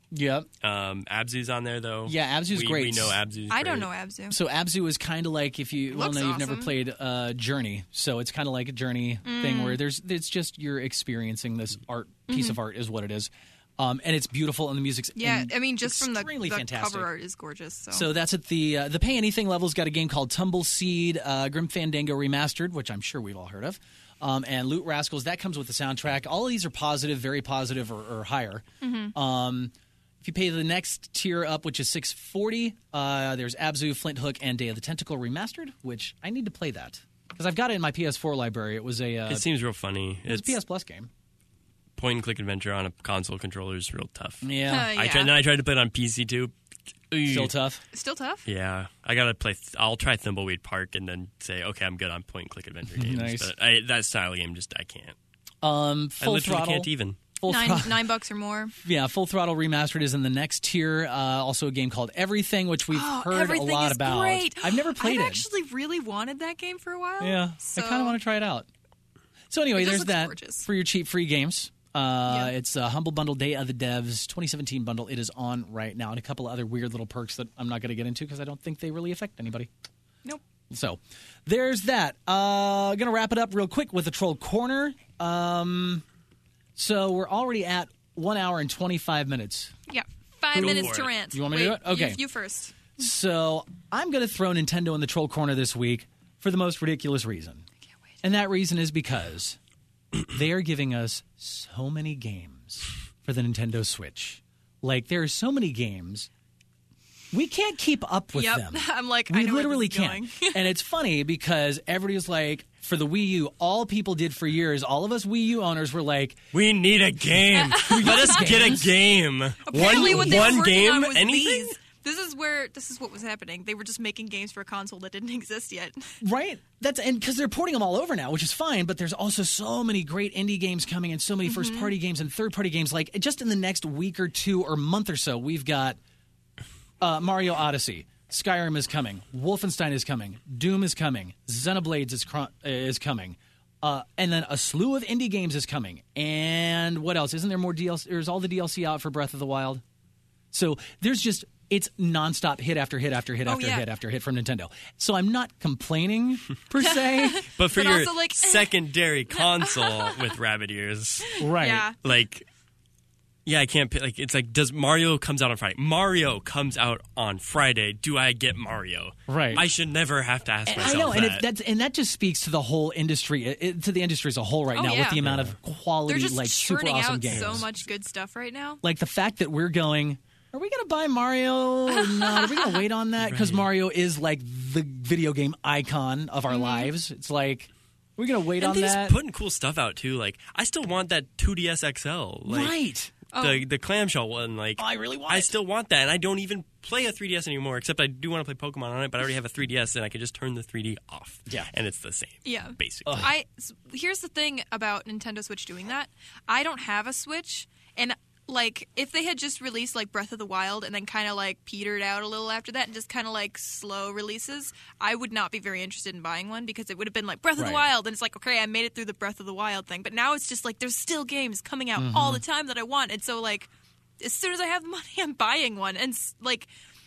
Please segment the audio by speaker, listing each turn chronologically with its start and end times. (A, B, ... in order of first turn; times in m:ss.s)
0:00.1-0:00.5 A
0:00.6-0:03.9 B
0:02.0-0:03.2 A
0:03.5-0:04.4 C
0:04.3-0:17.1 A
0:05.9-0:06.7 C
0:09.2-0:09.8 C
0:12.3-0:12.6 C
0:15.2-0:18.1 C
0:17.9-0:39.4 A
0:28.8-0:29.1 C
0:39.3-0:40.6 B
0:40.2-0:41.1 A
0:42.0-0:46.5 B
0:44.4-0:44.9 A
0:44.7-0:45.4 C
0:47.1-0:47.5 B
0:47.2-0:47.8 A
0:47.9-0:48.4 C
0:48.4-0:55.2 B
0:52.9-0:53.5 A
0:55.6-0:58.1 A
0:56.2-0:57.2 B
0:57.4-0:58.7 C
0:58.8-1:05.4 A
1:02.9-1:08.2 C
1:07.2-1:08.7 A
1:09.5-1:19.7 A
1:09.7-1:10.7 C
1:12.2-1:12.5 C
1:20.7-1:26.0 A
1:26.8-1:29.7 A
1:29.9-1:32.7 C
1:30.5-1:31.1 B
1:30.5-1:32.2 A
1:33.0-1:37.6 A
1:38.2-1:39.6 A
1:40.3-1:46.3 A
1:47.3-1:56.4 A
1:48.3-1:50.6 C
1:56.5-2:01.8 B
1:57.7-1:58.9 A
1:58.0-1:58.5 C
1:59.7-2:06.0 C
1:59.7-2:00.6 A
2:06.2-2:16.0 A
2:11.4-2:11.9 C
2:17.0-2:29.8 A
2:30.5-2:37.4 A
2:33.4-2:33.8 C
2:36.8-2:38.7 C
2:37.5-2:41.4 B
2:39.3-2:40.1 C
2:41.4-2:41.9 A
2:41.4-2:42.0 C
2:42.0-2:42.5 B
2:43.4-2:51.4 B
2:49.3-2:49.7 A
2:50.6-2:57.7 A
2:54.7-2:55.2 C
2:55.2-2:55.6 B
2:56.1-2:58.8 C
2:57.3-2:57.6 B
2:58.8-3:09.2 A
3:02.0-3:02.8 C
3:03.2-3:03.7 B
3:06.5-3:06.9 C
3:08.6-3:12.8 B
3:12.4-3:13.1 A
3:13.3-3:13.6 C
3:13.3-3:23.3 B
3:14.8-3:15.5 A
3:22.4-3:43.7 C
3:23.0-3:23.3 A
3:37.6-3:37.9 A
3:42.0-3:42.4 A
3:44.2-3:46.7 C